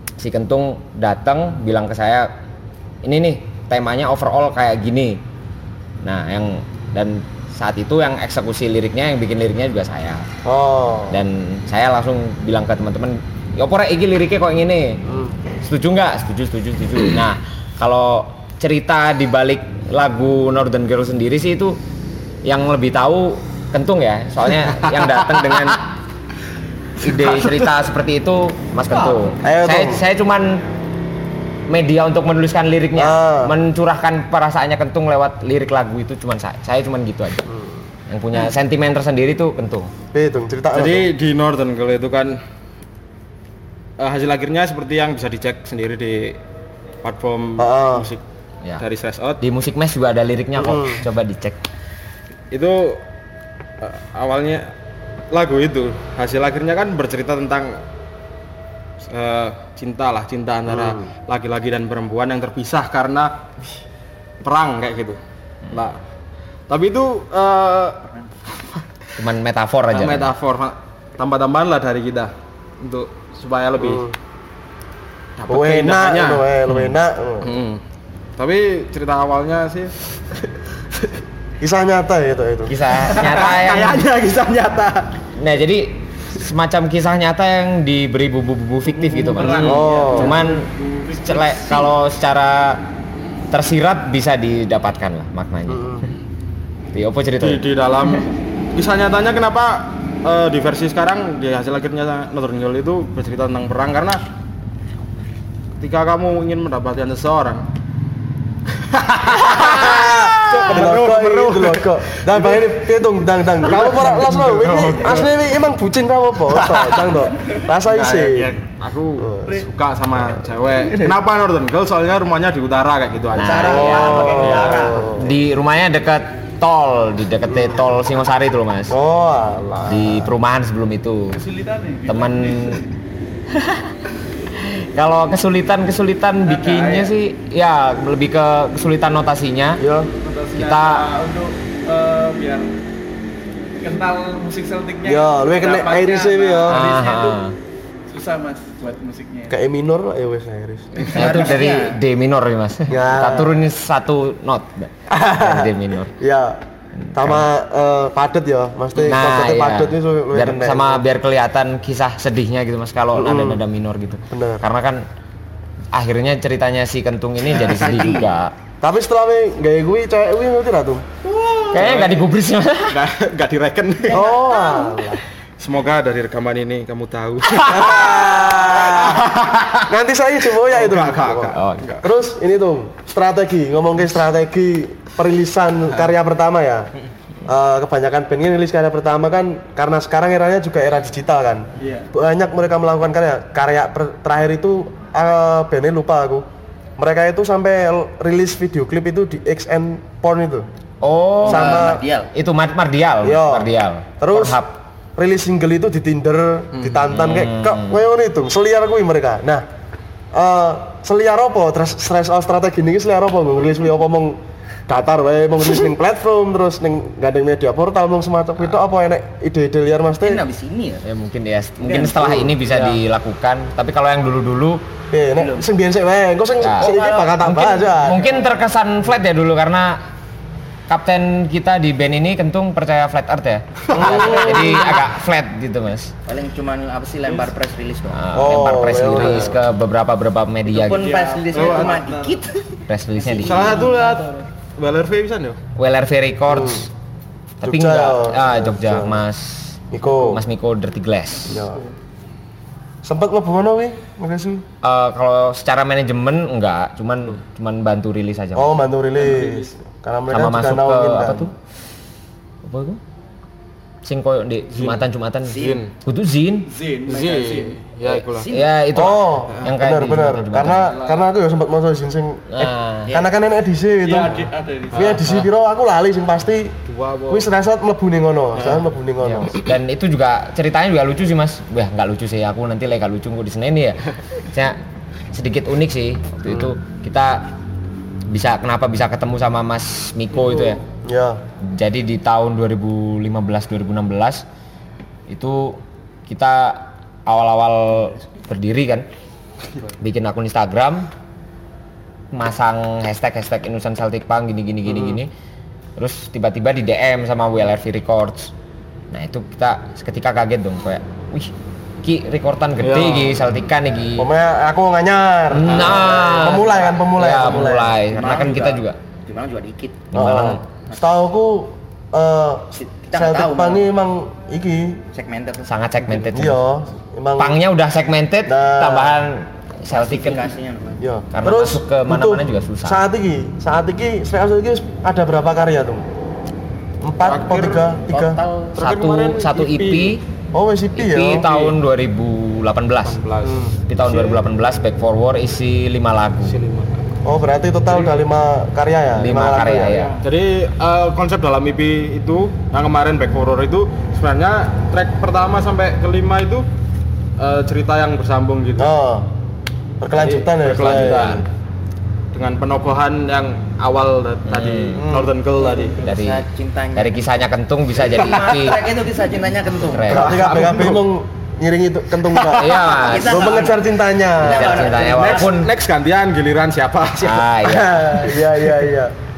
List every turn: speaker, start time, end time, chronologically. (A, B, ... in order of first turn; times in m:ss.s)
0:00.2-0:02.3 A
0:03.0-0:05.2 A
0:06.0-0:10.2 A
0:10.4-0:11.2 B
0:11.1-0:15.0 A
0:15.0-0:15.4 B
0:15.6-0:21.8 A
0:22.4-0:25.9 A
0:27.0-0:30.6 A
0:29.4-0:30.0 B
0:31.7-0:37.4 A
0:33.0-0:33.5 B
0:37.5-0:37.8 B
0:38.1-0:39.9 A
0:40.1-0:41.1 B
0:40.7-0:42.4 C
0:44.0-0:46.4 C
0:47.0-0:48.2 C
0:47.6-0:48.1 B
0:48.8-0:49.4 C
0:49.4-0:51.6 A
0:50.6-0:51.0 B
0:52.5-0:53.0 C
0:53.8-0:54.7 C
0:55.3-0:57.8 C
0:59.0-1:03.4 C
1:00.7-1:01.0 B
1:04.4-1:05.2 C
1:05.7-1:06.0 C
1:06.7-1:08.8 C
1:09.2-1:10.3 A
1:09.9-1:14.0 C
1:13.8-1:14.1 B
1:15.4-1:16.8 C
1:15.5-1:17.5 B
1:17.4-1:17.8 C
1:18.4-1:19.9 C
1:21.6-1:22.8 B
1:22.7-1:24.1 A
1:23.0-1:25.1 C
1:25.3-1:32.8 A
1:28.9-1:31.9 D
1:29.4-1:30.1 C
1:29.6-1:30.3 B
1:33.5-1:36.1 A
1:35.7-1:36.0 B
1:36.9-1:37.6 A
1:37.4-1:44.2 C
1:45.8-1:47.6 C
1:48.8-1:52.8 C
1:49.5-1:58.5 B
1:53.6-1:55.3 C
1:56.5-1:57.2 C
1:57.8-2:03.8 C
1:59.2-1:59.6 B
2:03.3-2:08.9 A
2:03.4-2:05.1 E
2:03.6-2:05.4 B
2:07.5-2:07.8 B
2:08.9-2:10.3 B
2:09.8-2:11.4 A
2:11.3-2:12.8 D
2:12.1-2:12.8 A
2:13.5-2:13.9 A
2:14.5-2:19.8 A
2:16.4-2:17.1 D
2:19.8-2:20.1 B
2:20.2-2:22.7 D
2:20.5-2:21.1 A
2:23.6-2:27.4 D
2:25.0-2:26.9 B
2:26.7-2:27.6 A
2:28.1-2:29.5 D
2:29.5-2:31.0 B
2:31.0-2:32.0 E
2:31.1-2:36.1 A
2:32.9-2:33.6 B
2:35.1-2:36.6 B
2:36.9-2:37.4 A
2:37.1-2:41.0 B
2:39.0-2:45.0 A
2:43.1-2:43.6 B
2:44.3-2:44.6 B
2:45.9-2:48.5 A
2:47.5-2:48.2 C
2:48.8-2:51.1 B
2:51.2-2:52.3 C
2:51.7-2:53.0 A
2:52.9-2:54.3 C
2:54.1-2:55.2 B
2:55.6-2:59.8 C
2:57.6-2:59.2 B
2:59.8-3:06.9 B
3:00.6-3:02.0 C
3:01.5-3:01.9 A
3:07.5-3:16.4 B
3:11.8-3:12.0 D
3:17.0-3:20.7 B
3:21.0-3:24.7 A
3:21.4-3:22.3 E
3:21.4-3:22.0 B
3:23.2-3:24.6 B
3:25.2-3:29.6 B
3:26.7-3:27.0 C
3:27.1-3:28.0 A
3:30.3-3:40.4 B
3:40.2-3:41.0 E
3:41.0-3:44.8 A
3:41.8-3:42.2 E
3:42.2-3:42.6 B
3:42.7-3:43.0 C
3:45.1-3:48.4 B
3:45.4-3:45.6 E
3:46.6-3:50.0 A
3:46.6-3:47.4 E
3:50.9-3:56.1 A
3:53.9-3:54.5 C
3:53.9-3:55.0 B
3:56.2-3:58.3 E
3:58.1-4:01.1 A
3:58.3-3:59.6 B
4:00.7-4:02.6 E
4:00.8-4:02.4 D
4:01.5-4:02.0 C
4:02.9-4:03.8 A
4:03.2-4:04.2 E
4:03.4-4:05.6 C
4:05.8-4:06.9 A
4:06.5-4:06.9 B
4:07.6-4:11.6 A
4:07.6-4:09.2 B
4:09.9-4:10.4 B
4:11.4-4:11.8 B
4:13.0-4:14.6 B
4:14.8-4:18.8 A
4:18.5-4:21.5 B
4:19.4-4:19.7 D
4:20.3-4:21.5 A
4:22.6-4:23.0 A
4:24.0-4:26.7 A
4:24.7-4:25.9 C
4:25.5-4:25.8 E
4:26.7-4:27.9 D
4:27.0-4:28.5 C
4:28.0-4:28.7 E
4:28.4-4:31.0 A
4:28.9-4:36.8 B
4:32.5-4:33.1 A
4:34.0-4:35.2 D
4:34.9-4:35.5 C
4:36.8-4:37.5 C
4:37.3-4:39.6 B
4:38.6-4:38.8 C
4:39.2-4:44.8 A
4:45.3-4:47.5 A
4:48.3-4:50.8 A
4:51.0-4:51.4 B
4:51.6-4:54.4 A
4:55.3-4:59.0 A
5:00.0-5:01.1 A
5:02.3-5:05.3 A
5:04.9-5:05.2 B
5:06.0-5:08.5 A
5:09.1-5:14.3 A
5:12.8-5:13.4 C
5:14.2-5:18.0 B
5:15.5-5:19.0 A
5:15.6-5:16.2 C
5:18.0-5:20.1 E
5:20.1-5:20.6 A
5:20.1-5:25.0 B
5:22.8-5:23.8 E
5:25.1-5:25.7 E
5:25.7-5:26.6 A
5:26.3-5:27.6 B
5:27.4-5:30.5 A
5:28.4-5:29.2 B
5:29.9-5:31.0 E
5:31.0-5:36.0 B
5:31.3-5:33.0 A
5:37.0-5:38.4 B
5:37.2-5:38.0 C
5:38.1-5:38.8 E
5:38.7-5:40.2 A
5:38.8-5:40.2 C
5:40.5-5:41.5 B
5:40.9-5:43.2 A
5:41.4-5:41.8 C
5:43.0-5:43.7 C
5:43.4-5:44.4 B
5:43.9-5:46.6 A
5:46.4-5:47.1 C
5:47.2-5:50.0 B
5:49.1-5:50.2 A
5:49.9-5:50.1 D
5:50.2-5:56.7 C
5:57.4-5:58.9 C
5:58.8-5:59.3 B
6:00.0-6:01.4 B
6:00.2-6:01.5 C
6:00.8-6:01.3 A
6:02.3-6:06.0 C
6:04.5-6:05.0 A
6:05.0-6:05.3 B
6:05.6-6:07.3 E
6:06.0-6:08.9 A
6:08.0-6:10.2 E
6:08.1-6:08.4 C
6:09.8-6:10.4 A
6:10.1-6:11.0 C
6:10.1-6:15.0 B
6:12.3-6:12.6 C
6:12.5-6:13.7 A
6:12.9-6:15.5 E
6:14.4-6:15.7 A
6:15.0-6:17.7 C
6:17.2-6:18.4 A
6:17.7-6:19.1 B